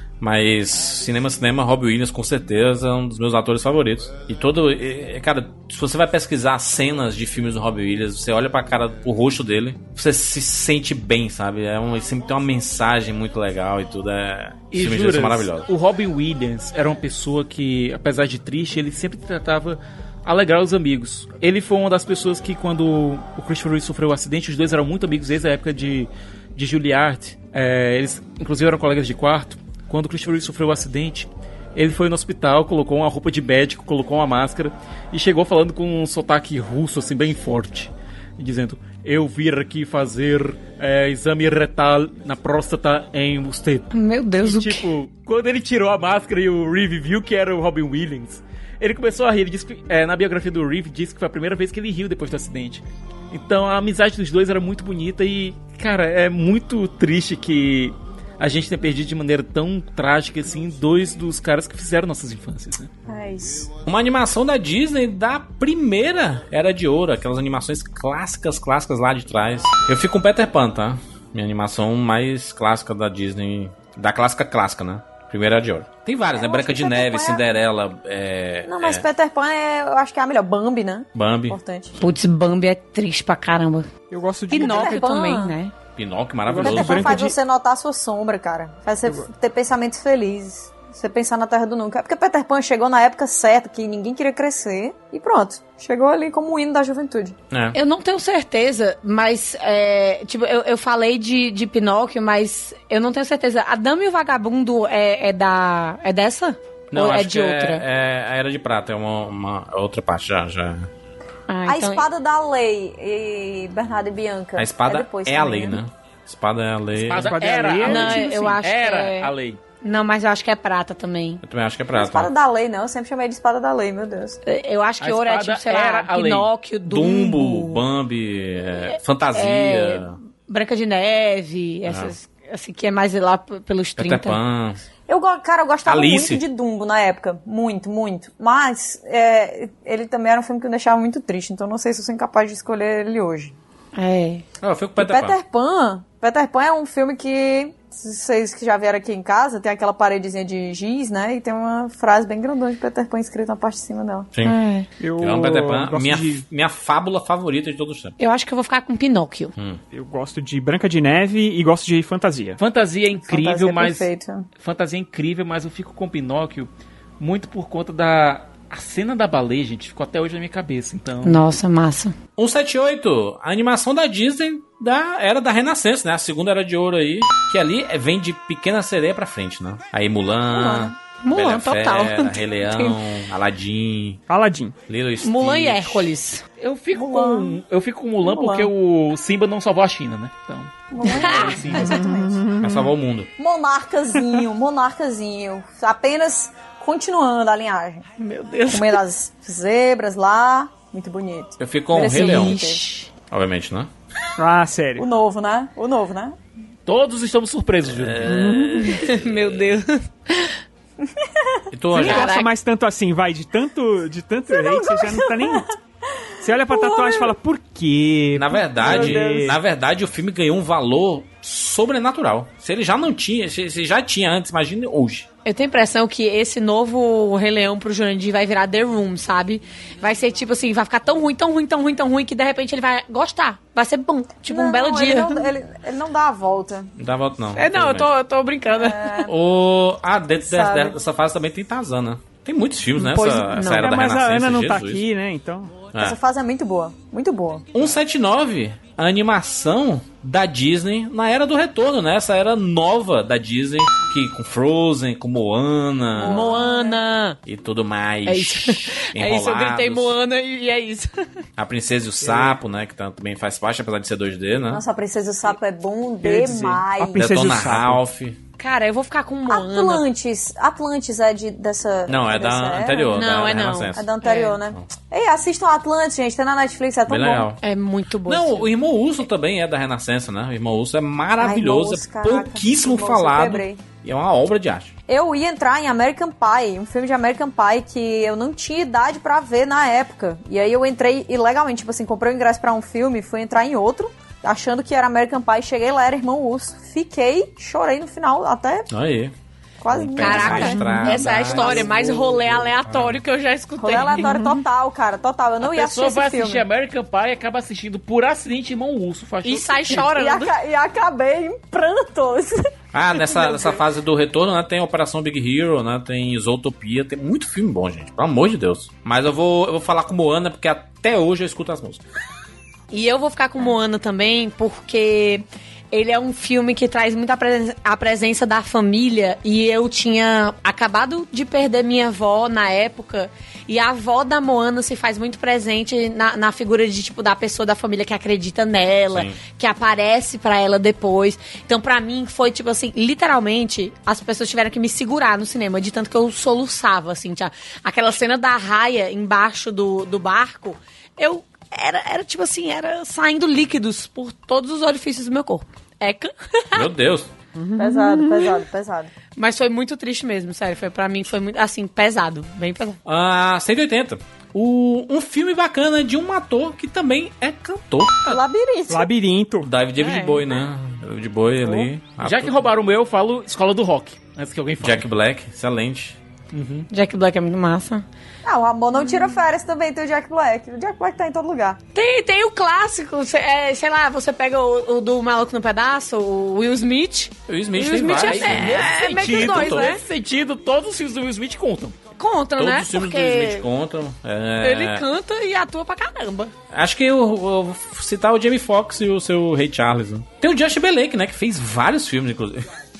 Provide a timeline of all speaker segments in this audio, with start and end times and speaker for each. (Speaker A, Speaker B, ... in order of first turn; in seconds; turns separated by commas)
Speaker A: 0.2-15.7, Speaker B: 14.7-43.9, Speaker C: 43.9-44.9, Speaker B: 44.4-62.9, Speaker D: 63.1-63.7, Speaker A: 63.8-79.0, Speaker D: 76.3-77.5, Speaker D: 78.7-82.0, Speaker A: 81.1-81.6, Speaker C: 82.0-83.9, Speaker E: 84.1-85.0, Speaker C: 84.5-85.7, Speaker D: 84.5-85.5, Speaker A: 86.0-87.2, Speaker E: 86.5-87.3, Speaker D: 86.6-97.4, Speaker A: 97.5-97.8, Speaker C: 97.7-107.8, Speaker A: 106.9-110.9, Speaker C: 111.5-112.0, Speaker D: 111.7-115.8, Speaker A: 114.5-117.5, Speaker E: 117.0-118.6, Speaker B: 117.1-119.6, Speaker C: 117.8-119.3, Speaker C: 119.8-121.4, Speaker A: 121.4-122.3, Speaker D: 121.9-124.4, Speaker C: 124.4-127.8, Speaker B: 125.0-126.5, Speaker A: 126.8-130.2, Speaker C: 128.8-134.4, Speaker A: 131.9-132.1, Speaker A: 134.0-134.8, Speaker D: 135.1-143.5, Speaker A: 135.8-136.4, Speaker C: 143.9-144.4, Speaker A: 144.6-145.4, Speaker D: 144.9-154.3, Speaker C: 154.4-154.9, Speaker E: 155.0-156.4, Speaker A: 155.2-158.1, Speaker C: 158.2-159.5, Speaker E: 159.9-162.6, Speaker B: 162.6-164.1, Speaker D: 163.2-164.4, Speaker B: 164.6-166.7, Speaker B: 167.2-171.4, Speaker C: 171.2-172.1, Speaker A: 172.4-184.2, Speaker D: 180.5-180.9, Speaker C: 181.2-183.0, Speaker E: 184.3-184.8, Speaker A: 184.9-186.1, Speaker C: 185.2-186.4, Speaker B: 186.6-192.0, Speaker D: 186.9-187.6, Speaker D: 188.2-188.7, Speaker D: 190.9-192.5, Speaker C: 191.0-191.5, Speaker E: 191.8-192.8, Speaker A: 192.6-193.3, Speaker D: 193.4-198.0, Speaker C: 198.2-199.0, Speaker D: 198.7-202.8, Speaker A: 201.6-202.6, Speaker C: 201.9-203.1, Speaker A: 203.3-203.9, Speaker E: 204.4-205.1, Speaker D: 205.0-206.3, Speaker B: 206.8-208.3, Speaker A: 207.8-209.8, Speaker E: 208.2-208.9, Speaker C: 208.7-210.6, Speaker D: 211.2-211.6, Speaker A: 211.7-212.3, Speaker C: 211.9-212.5, Speaker E: 211.9-215.7, Speaker D: 214.5-215.7, Speaker E: 216.4-219.6, Speaker D: 216.7-217.3, Speaker A: 218.3-225.3, Speaker D: 218.8-219.5, Speaker C: 225.4-235.4, Speaker D: 234.5-236.9, Speaker A: 237.0-238.1, Speaker C: 237.5-239.3, Speaker D: 238.7-239.3, Speaker A: 239.3-245.0, Speaker D: 240.3-241.0, Speaker C: 242.9-243.9, Speaker E: 243.7-245.8, Speaker D: 246.0-247.6, Speaker A: 247.7-256.5, Speaker D: 256.2-257.0, Speaker C: 256.2-257.4, Speaker A: 257.4-260.1, Speaker C: 258.2-261.1, Speaker A: 261.6-264.8, Speaker E: 262.2-262.6, Speaker D: 264.7-267.3, Speaker E: 266.2-268.0, Speaker A: 267.1-268.4, Speaker C: 268.6-270.0, Speaker D: 269.5-273.2, Speaker A: 272.1-274.1, Speaker C: 273.1-274.6, Speaker D: 273.9-277.5, Speaker A: 277.1-277.6, Speaker C: 277.6-278.7, Speaker A: 278.2-284.9, Speaker D: 281.4-283.8, Speaker D: 285.1-298.9, Speaker A: 298.9-299.3, Speaker D: 299.8-302.7, Speaker A: 299.9-301.9, Speaker C: 300.2-304.3, Speaker D: 303.8-306.6, Speaker E: 304.1-304.6, Speaker B: 305.6-310.1, Speaker C: 309.4-310.5, Speaker D: 310.0-313.8, Speaker A: 312.9-322.0, Speaker C: 322.9-356.9, Speaker A: 339.1-339.4, Speaker A: 356.7-357.3, Speaker E: 357.6-358.6, Speaker D: 357.8-359.1, Speaker C: 359.4-363.0, Speaker A: 363.1-368.4, Speaker D: 368.3-369.1, Speaker E: 368.9-369.7, Speaker A: 369.6-372.6, Speaker C: 370.0-370.4, Speaker B: 372.2-375.0, Speaker A: 374.8-376.2, Speaker B: 376.5-376.9, Speaker C: 376.9-378.0, Speaker D: 378.4-381.8, Speaker C: 381.9-390.0, Speaker A: 387.5-389.7, Speaker B: 388.1-391.9, Speaker C: 392.2-393.7, Speaker A: 392.6-395.0, Speaker C: 394.6-396.5, Speaker A: 396.7-402.6